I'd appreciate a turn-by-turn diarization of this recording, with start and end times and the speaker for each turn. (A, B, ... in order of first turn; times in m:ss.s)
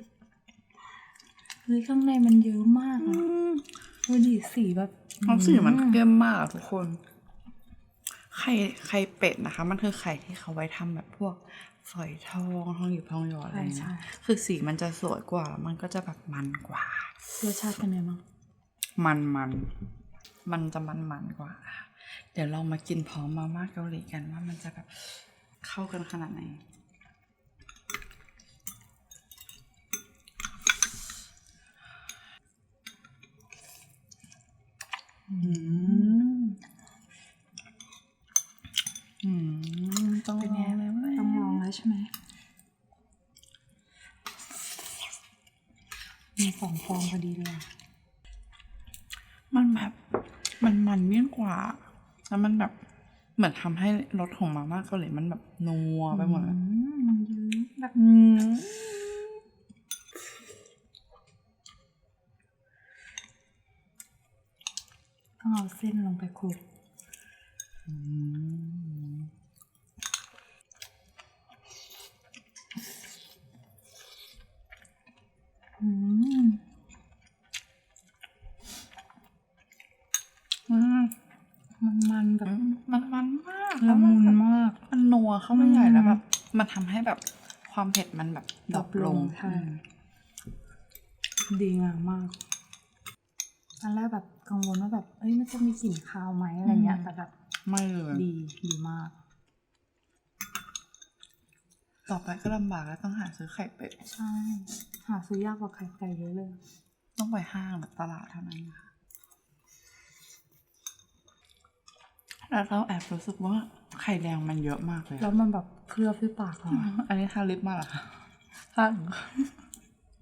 0:01.6-0:03.2 A
0:03.0-0:03.7 B
0:04.0-0:06.0 A
0:05.2-0:07.0 B
0:08.3-0:17.1 B
0:13.5-0:14.1 A
0:17.4-0:18.2 A
0:19.0-0:19.7 B
0:20.4-0:26.6 B
0:35.3-0:36.1 A
0:35.4-0:36.6 B
0:39.2-0:41.6 B
0:40.4-0:42.1 A
0:46.4-0:47.7 A
0:49.5-0:50.0 B
0:50.6-0:52.7 B
0:53.4-0:56.6 B
0:56.1-0:58.0 A
0:57.9-0:59.4 B
1:05.4-1:06.6 A
1:07.8-1:09.3 B
1:15.8-1:16.6 A
1:20.7-1:21.1 B
1:21.8-1:22.5 A
1:22.4-1:29.8 B
1:23.8-1:24.8 A
1:25.5-1:26.2 A
1:28.7-1:29.7 A
1:31.5-1:32.4 A
1:33.8-1:37.3 A
1:36.6-1:37.1 B
1:37.6-1:38.2 B
1:38.1-1:39.1 A
1:42.0-1:44.0 B
1:44.0-1:46.6 A
1:47.2-1:48.9 B
1:52.5-1:55.3 B
1:55.2-1:56.9 A
1:56.7-1:58.2 B
1:58.7-1:59.5 B